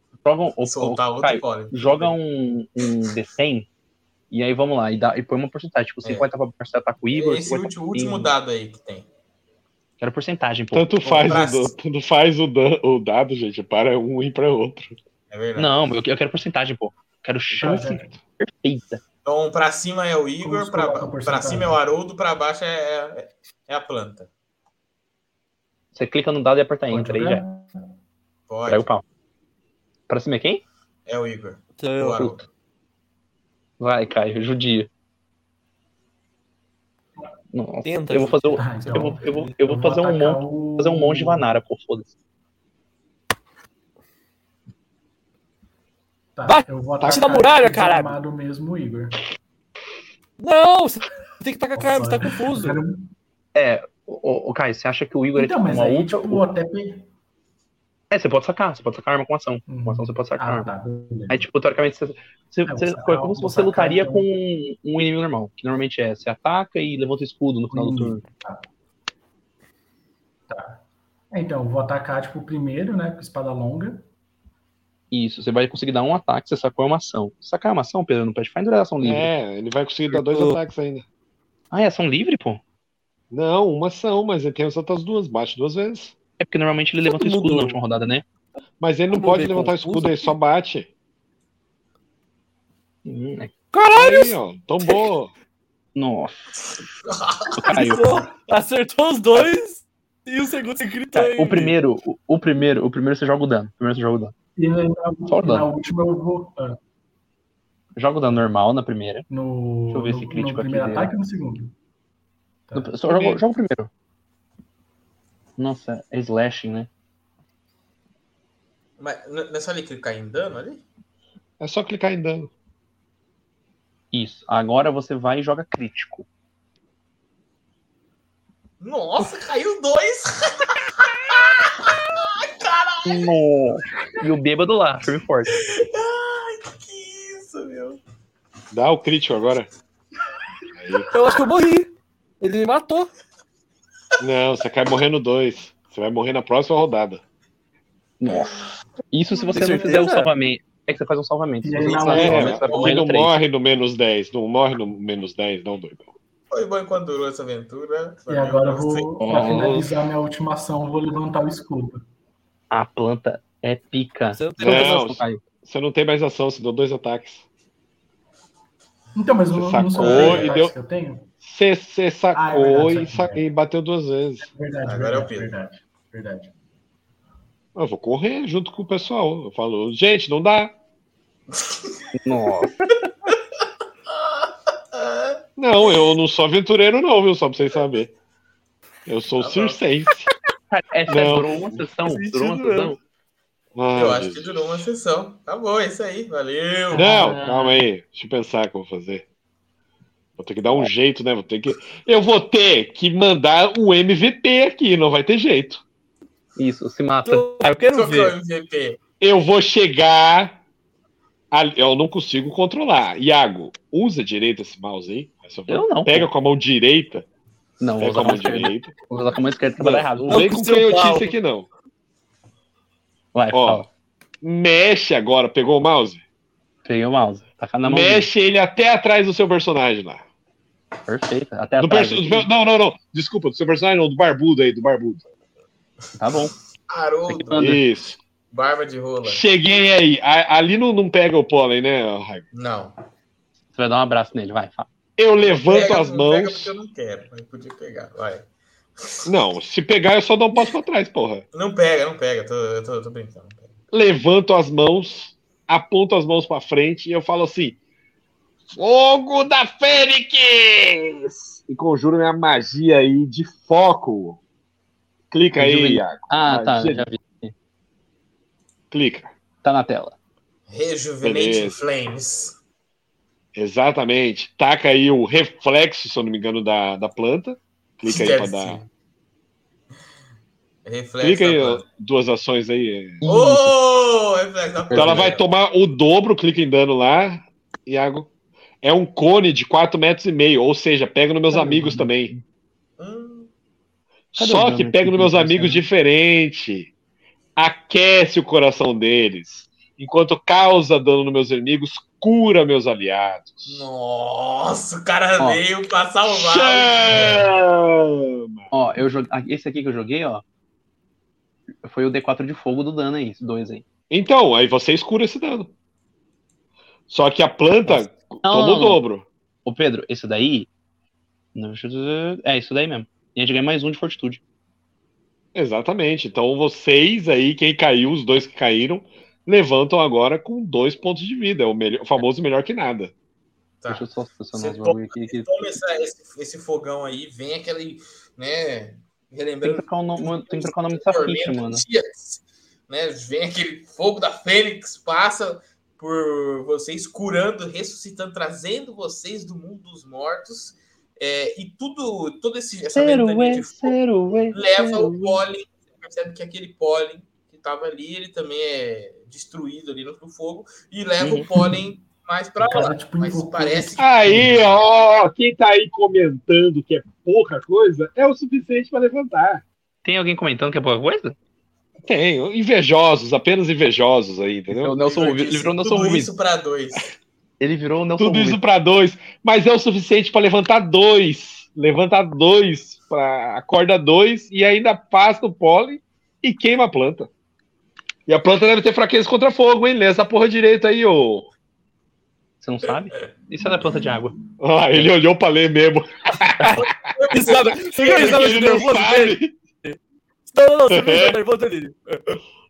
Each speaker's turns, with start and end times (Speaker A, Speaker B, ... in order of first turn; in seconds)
Speaker A: 0.2-3.7, 4.3-8.3, 10.0-11.3, 15.6-19.0, 25.9-27.4, 28.7-29.0, 30.1-30.6, 33.8-34.9, 37.5-42.1, 53.5-56.5, 58.1-60.7, 61.3-68.2, 75.1-79.3, 81.7-82.6, 86.4-88.2, 93.0-93.5, 96.0-96.5, 97.6-98.2, 101.1-104.3, 105.3-105.7, 108.0-109.3, 109.9-111.1, 112.7-113.9, 115.6-116.9, 124.1-126.3, 133.0-135.5, 148.2-153.4, 159.2-159.9, 162.7-165.4, 182.2-183.0, 190.7-193.0, 197.0-197.5, 206.6-207.6, 215.7-216.3, 217.8-220.5, 223.3-223.9, 226.8-228.3, 231.1-232.5, 236.2-236.5, 237.3-237.8, 243.7-244.9, 265.6-267.5, 269.6-270.2, 283.2-283.7, 284.9-285.3, 291.5-292.4, 294.4-295.8, 308.7-310.4, 311.8-313.8, 317.9-319.0, 319.6-320.7, 321.6-324.4, 333.9-335.5, 339.6-341.8, 352.9-355.4, 361.2-361.5, 370.0-371.4, 374.7-376.3, 377.6-378.6, 392.6-394.4
Speaker B: 0.6-2.2, 7.1-9.1, 11.2-11.8, 15.3-15.8, 19.2-24.3, 28.5-28.9, 31.1-32.5, 97.1-97.7, 119.0-120.8, 128.8-133.3, 135.5-138.0, 152.1-153.0, 156.5-159.1, 170.0-170.6, 174.8-175.6, 181.5-182.1, 184.1-185.4, 189.4-189.8, 193.9-197.2, 207.9-209.0, 236.9-237.8, 238.5-239.4, 242.5-243.0, 245.4-248.5, 249.0-249.3, 251.5-253.7, 270.7-272.6, 278.0-278.9, 280.9-281.9, 283.2-285.4, 293.0-293.5, 303.7-307.4, 333.8-354.0, 354.5-364.5, 375.0-377.1, 397.1-398.7
Speaker C: 10.7-15.0, 47.0-47.4, 79.0-81.0, 83.3-86.1, 88.8-90.9, 93.9-95.3, 121.6-122.5, 138.7-139.7, 140.8-141.1, 144.2-147.2, 152.1-156.1, 164.6-167.4, 169.5-170.7, 171.4-174.5, 177.8-180.8, 185.6-188.1, 189.1-190.3, 191.1-191.6, 193.8-194.9, 196.9-199.2, 200.4-205.8, 209.2-210.6, 211.5-217.3, 218.0-218.9, 219.8-221.7, 223.5-223.9, 224.4-226.2, 227.8-230.2, 231.8-235.2, 237.6-238.2, 239.2-242.4, 245.2-246.7, 249.3-251.4, 253.9-257.8, 258.7-264.4, 265.3-267.1, 268.9-269.3, 271.2-271.8, 273.6-278.8, 281.2-283.2, 284.9-288.3, 288.8-292.3, 294.3-296.9, 297.6-303.9, 306.3-308.7, 314.1-315.7, 317.1-319.3, 325.6-333.1, 364.0-369.6, 372.0-374.9, 378.2-387.3, 388.3-391.5, 394.6-397.5, 398.1-399.6, 400.9-401.4
Speaker D: 17.5-18.2, 20.4-21.8, 26.9-27.9, 38.6-41.5, 46.4-49.2, 51.8-53.1, 55.4-57.1, 59.7-61.5, 62.7-64.3, 67.7-68.7, 70.5-74.1, 104.6-106.8, 109.3-111.7, 112.7-113.3, 151.6-152.6, 158.3-162.0, 169.2-171.3, 172.3-173.4, 174.4-176.5, 196.9-197.8, 362.6-364.6
Speaker E: 31.8-32.4, 37.8-39.6, 46.5-48.2, 50.4-52.8, 80.1-80.6, 87.0-87.8, 89.1-90.3, 93.7-94.4, 97.7-101.8, 141.1-141.9, 142.4-143.1, 149.5-150.3, 164.3-165.1, 192.0-193.0, 207.2-208.3, 220.3-221.3, 396.7-400.0, 400.5-402.4